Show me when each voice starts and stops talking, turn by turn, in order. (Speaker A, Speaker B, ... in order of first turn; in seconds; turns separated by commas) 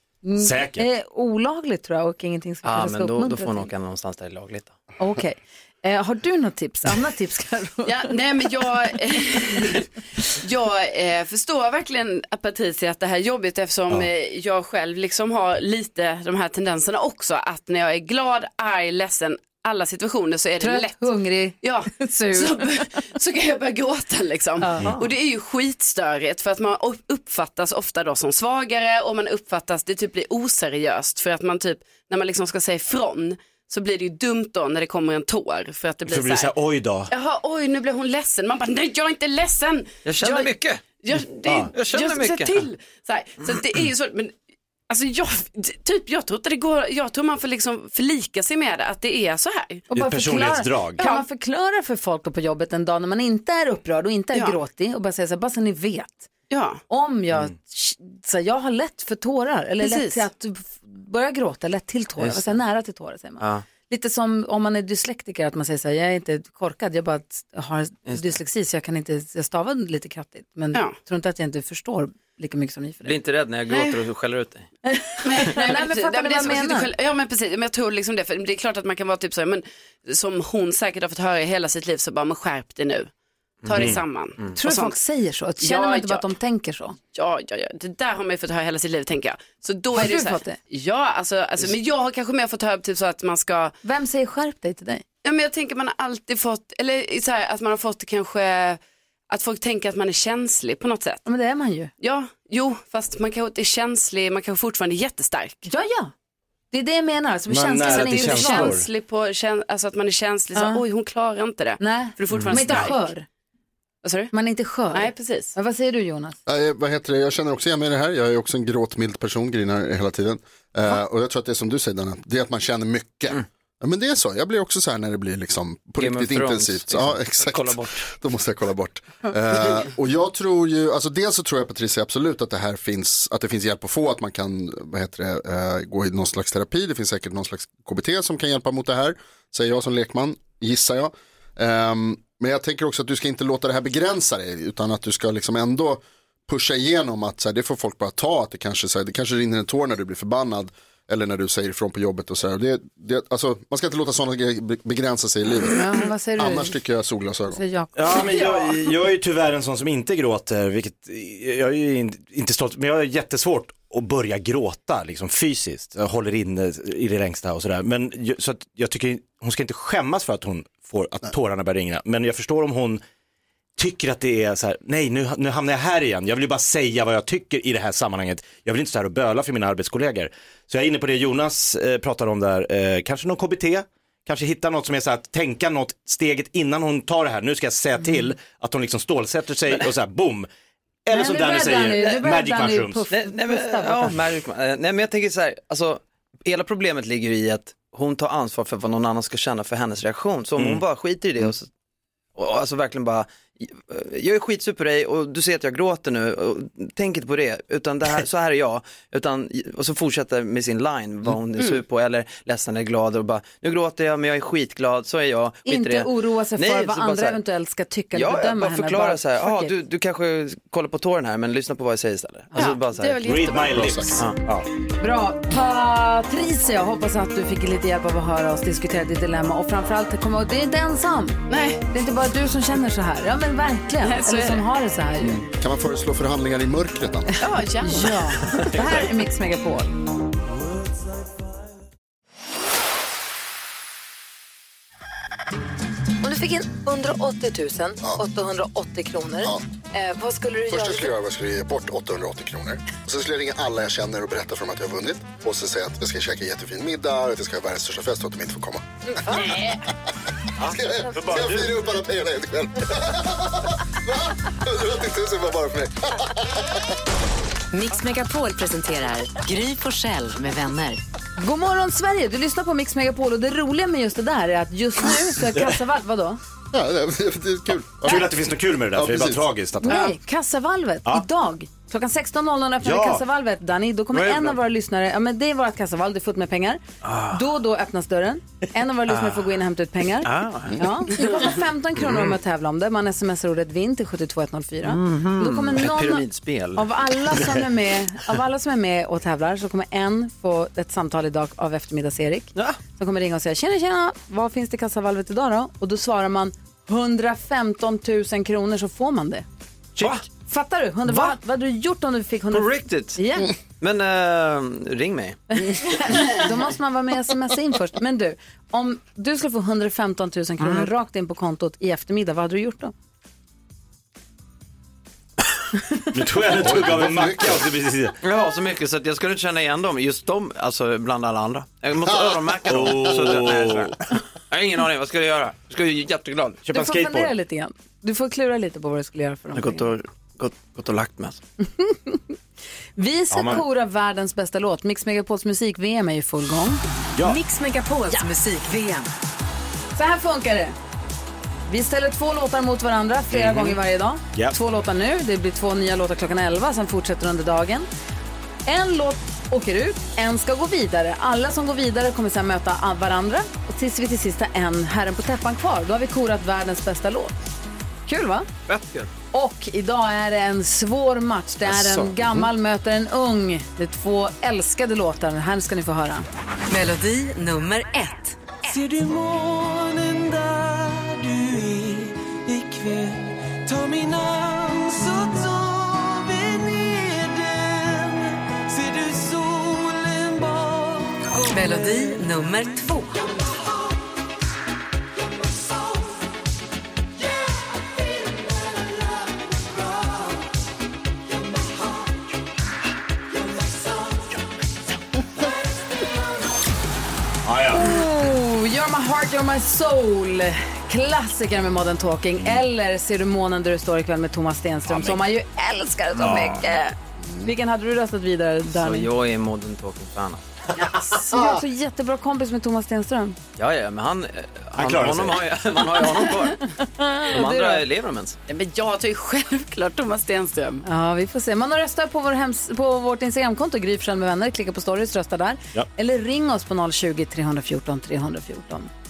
Speaker A: 0.2-3.7, Speaker B: 0.4-0.9, Speaker C: 2.6-4.8, Speaker A: 5.0-8.2, Speaker D: 7.8-21.1, Speaker A: 20.6-22.9, Speaker D: 21.6-36.5, Speaker A: 24.6-25.1, Speaker B: 36.1-37.1, Speaker D: 37.1-44.4, Speaker C: 40.0-41.0, Speaker B: 41.5-41.7, Speaker C: 41.7-42.6, Speaker D: 44.9-49.9, Speaker A: 49.9-56.3, Speaker B: 49.9-51.0, Speaker D: 51.0-51.2, Speaker D: 54.3-54.6, Speaker D: 56.5-56.8, Speaker A: 56.9-73.2, Speaker D: 59.8-60.2, Speaker C: 62.2-62.6, Speaker C: 63.4-63.7, Speaker C: 68.1-68.3, Speaker C: 73.0-74.7, Speaker D: 73.7-74.0, Speaker A: 74.9-76.9, Speaker D: 75.2-83.1, Speaker D: 83.7-85.0, Speaker C: 83.7-84.6, Speaker B: 83.7-84.0, Speaker A: 84.5-87.0, Speaker D: 85.6-86.3, Speaker D: 87.1-93.8, Speaker A: 89.9-90.6, Speaker A: 93.8-95.0, Speaker D: 95.2-101.3, Speaker A: 101.2-101.9, Speaker D: 102.0-105.7, Speaker A: 105.7-106.1, Speaker A: 106.7-108.8, Speaker B: 107.5-108.9, Speaker D: 107.8-113.1, Speaker A: 110.5-110.8, Speaker A: 111.8-113.2, Speaker D: 114.0-114.3, Speaker A: 114.3-116.4, Speaker D: 114.9-115.5, Speaker E: 116.5-157.6, Speaker C: 126.0-128.1, Speaker A: 155.7-156.8, Speaker A: 157.5-158.7, Speaker B: 157.9-173.0, Speaker B: 173.8-190.5, Speaker B: 191.1-193.1, Speaker A: 191.1-194.2, Speaker C: 193.1-201.7, Speaker B: 200.6-200.8, Speaker C: 202.3-217.4, Speaker A: 215.7-219.8, Speaker C: 218.1-223.2, Speaker D: 222.5-224.1, Speaker B: 223.2-224.7, Speaker A: 225.0-235.4, Speaker D: 231.5-231.8, Speaker D: 234.0-234.7, Speaker E: 235.2-237.4, Speaker D: 237.4-238.2, Speaker A: 237.8-239.9, Speaker A: 246.2-251.1, Speaker E: 250.7-258.9, Speaker A: 259.2-259.7, Speaker B: 260.6-261.7, Speaker E: 260.7-263.6, Speaker E: 264.1-266.5, Speaker F: 267.7-271.0, Speaker A: 271.4-276.4, Speaker E: 276.7-278.3, Speaker B: 278.0-280.1, Speaker E: 278.9-279.4, Speaker A: 279.8-309.4, Speaker B: 282.8-283.2, Speaker C: 287.0-287.4, Speaker C: 289.1-289.5, Speaker C: 290.2-290.9, Speaker C: 294.8-297.4, Speaker C: 310.0-310.3, Speaker A: 310.3-313.5, Speaker C: 311.1-311.4, Speaker C: 312.5-313.2, Speaker C: 313.8-315.6, Speaker A: 315.6-322.9, Speaker C: 320.6-320.9, Speaker B: 326.1-328.1, Speaker E: 326.6-327.6, Speaker C: 328.2-336.6, Speaker B: 332.7-334.0, Speaker B: 336.6-337.3, Speaker A: 336.7-339.9, Speaker C: 339.6-341.4, Speaker A: 341.8-342.2, Speaker A: 343.0-346.8, Speaker B: 343.3-343.6, Speaker B: 347.2-347.4, Speaker F: 347.2-349.1, Speaker A: 349.9-350.8, Speaker A: 351.7-357.9, Speaker B: 353.3-353.8, Speaker A: 358.6-367.3, Speaker A: 368.1-368.5, Speaker C: 368.7-369.1, Speaker A: 369.3-376.3, Speaker B: 371.7-372.3, Speaker F: 376.7-378.4, Speaker G: 378.7-392.2, Speaker F: 391.4-393.2, Speaker B: 407.4-408.0, Speaker A: 407.7-419.1, Speaker B: 414.9-415.2, Speaker B: 416.2-416.7, Speaker C: 418.7-420.5, Speaker A: 420.8-423.4, Speaker B: 421.3-421.6, Speaker C: 423.6-426.6, Speaker B: 424.8-425.5, Speaker A: 426.3-427.8, Speaker C: 427.3-428.4, Speaker D: 428.5-430.8, Speaker A: 430.8-438.9